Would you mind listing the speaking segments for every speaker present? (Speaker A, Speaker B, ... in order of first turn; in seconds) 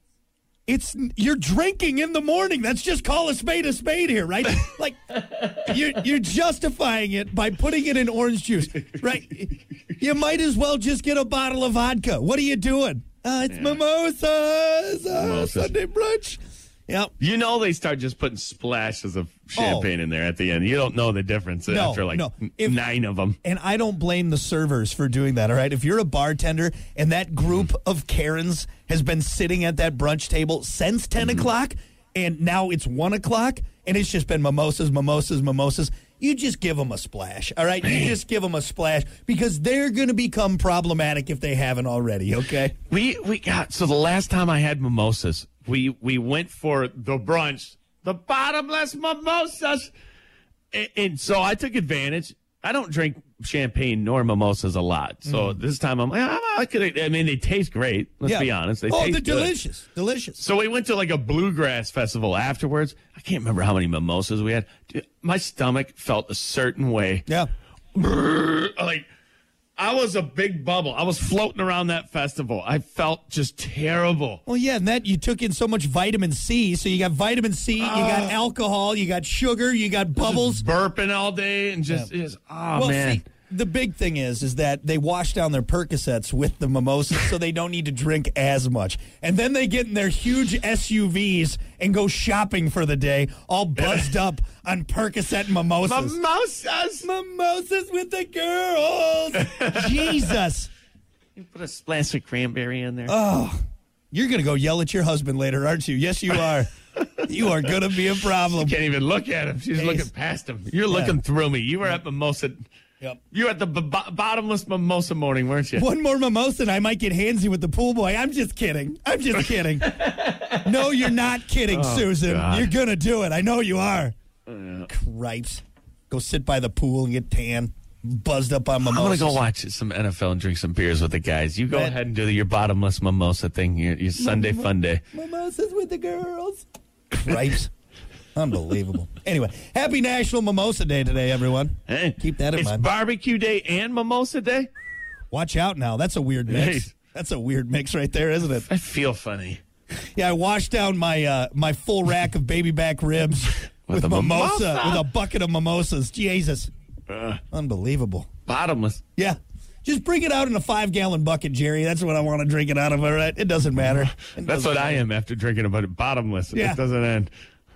Speaker A: 0.7-17.1, 19.5-19.9, 21.7-22.8, 23.4-42.7, 55.2-55.6, 58.2-60.4, 74.5-80.6, 82.7-96.1, 97.0-100.7, 103.0-103.6, 104.1-108.8, 109.8-110.1, 110.9-111.2, 115.7-124.1, 124.9-129.4, 131.7-132.0, 134.2-137.7, 138.3-142.9, 145.3-148.7, 150.1-156.7, 157.5-158.3, 159.2-165.0, 166.5-166.8
Speaker B: 13.5-13.8, 15.1-15.7, 17.2-23.4, 37.8-38.1, 42.9-49.9, 50.7-59.5, 60.4-67.2, 67.9-69.0, 69.8-74.4, 77.8-78.3, 80.2-83.2, 95.8-97.1, 99.4-100.3, 101.3-103.2, 108.3-112.6, 113.3-115.8, 119.9-120.9, 121.7-122.7, 124.5-124.9, 128.8-135.0, 141.9-144.7, 146.5-146.9, 148.6-149.6, 153.9-155.1, 157.1-157.4, 158.5-159.0, 164.3-167.3